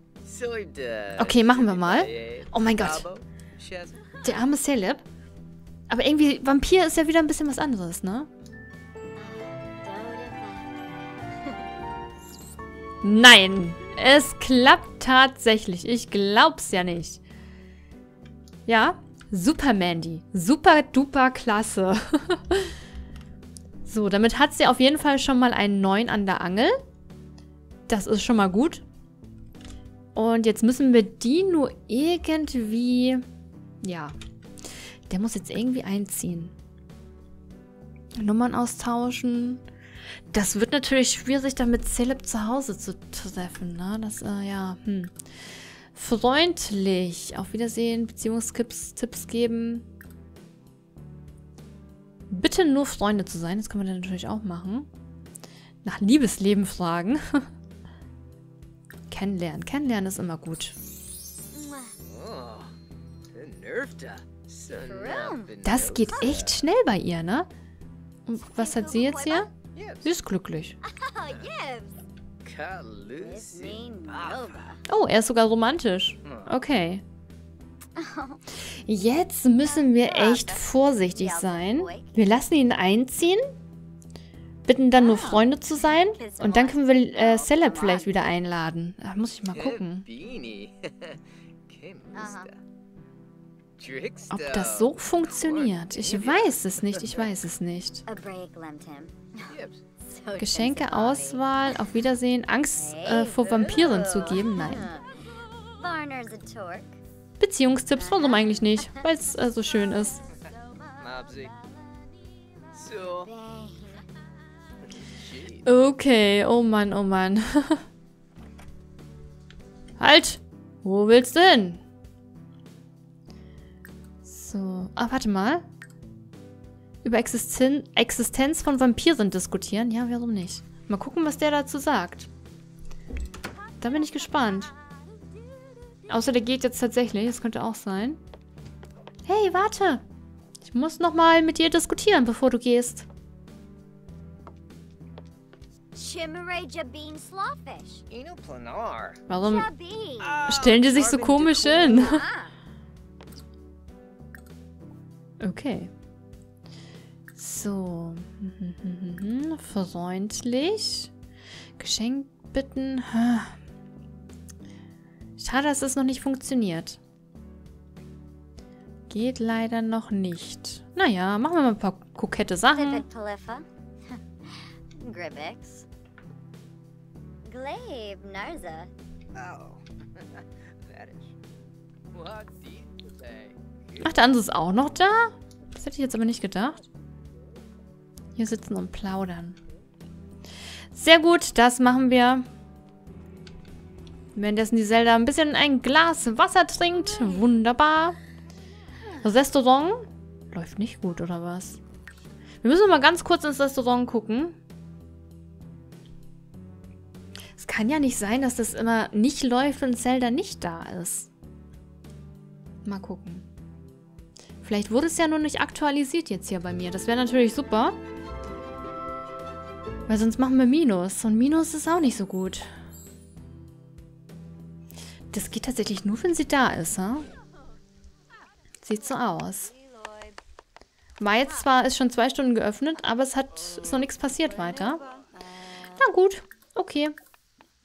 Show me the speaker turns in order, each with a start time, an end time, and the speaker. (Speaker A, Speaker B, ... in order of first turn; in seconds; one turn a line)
Speaker A: 0.2-4.5
Speaker B: 1.2-3.1
Speaker B: 4.2-5.0
Speaker B: 5.9-8.3
Speaker C: 9.2-10.8
Speaker B: 13.0-17.2
Speaker B: 18.7-22.7
Speaker B: 23.9-26.8
Speaker B: 27.9-28.8
Speaker B: 30.1-33.2
Speaker B: 33.8-34.2
Speaker B: 35.1-36.5
Speaker B: 38.2-39.6
Speaker B: 40.3-45.1
Speaker B: 45.9-49.9
Speaker B: 52.3-54.9
Speaker B: 55.8-57.5
Speaker B: 59.1-60.7
Speaker C: 61.5-62.0
Speaker A: 62.0-62.7
Speaker A: 63.3-66.6
Speaker C: 64.7-66.5
Speaker B: 65.6-67.5
Speaker B: 68.3-69.5
Speaker C: 68.5-69.5
Speaker A: 69.7-70.1
Speaker B: 70.0-70.8
Speaker C: 70.8-72.0
Speaker A: 72.4-74.7
Speaker C: 73.2-74.8
Speaker B: 74.9-77.0
Speaker A: 76.2-76.5
Speaker C: 78.0-78.4
Speaker B: 78.9-83.5
Speaker C: 79.6-82.2
Speaker B: 84.7-90.1
Speaker C: 85.0-88.2
Speaker A: 89.5-92.6
Speaker C: 92.1-92.5
Speaker A: 93.8-97.3
Speaker B: 94.3-98.0
Speaker C: 98.1-101.8
Speaker A: 99.5-99.8
Speaker B: 100.4-104.9
Speaker C: 102.8-107.0
Speaker B: 107.4-110.2
Speaker C: 108.0-109.0
Speaker C: 109.7-112.4
Speaker A: 111.0-111.5
Speaker A: 112.7-113.3
Speaker C: 113.0-114.1
Speaker A: 115.0-115.7
Speaker B: 115.7-117.8
Speaker B: 120.0-121.8
Speaker B: 124.2-125.7
Speaker B: 127.0-132.3
Speaker B: 133.8-134.7
Speaker C: 133.8-136.0
Speaker B: 136.1-138.2
Speaker B: 139.2-140.0
Speaker B: 140.6-143.1
Speaker C: 145.9-148.1
Speaker A: 148.1-149.2
Speaker B: 149.3-149.7
Speaker C: 149.4-150.5
Speaker A: 150.2-152.2
Speaker B: 150.5-152.3
Speaker C: 151.9-152.5
Speaker B: 155.4-155.9
Speaker B: 157.4-161.1
Speaker B: 161.8-163.6
Speaker B: 165.4-167.0
Speaker B: 169.1-173.1
Speaker C: 172.7-175.9
Speaker C: 177.4-178.9
Speaker A: 179.3-181.3
Speaker A: 182.1-184.2
Speaker B: 184.0-186.9
Speaker B: 188.4-189.6
Speaker B: 190.9-192.5
Speaker B: 194.3-198.2
Speaker B: 199.2-201.8
Speaker B: 202.6-204.6
Speaker B: 207.6-211.3
Speaker B: 212.8-213.4
Speaker B: 214.6-218.0
Speaker B: 220.1-222.7
Speaker B: 225.3-227.3
Speaker B: 228.8-229.7
Speaker C: 229.5-230.4
Speaker B: 231.2-235.0
Speaker C: 235.0-236.0
Speaker B: 235.9-237.2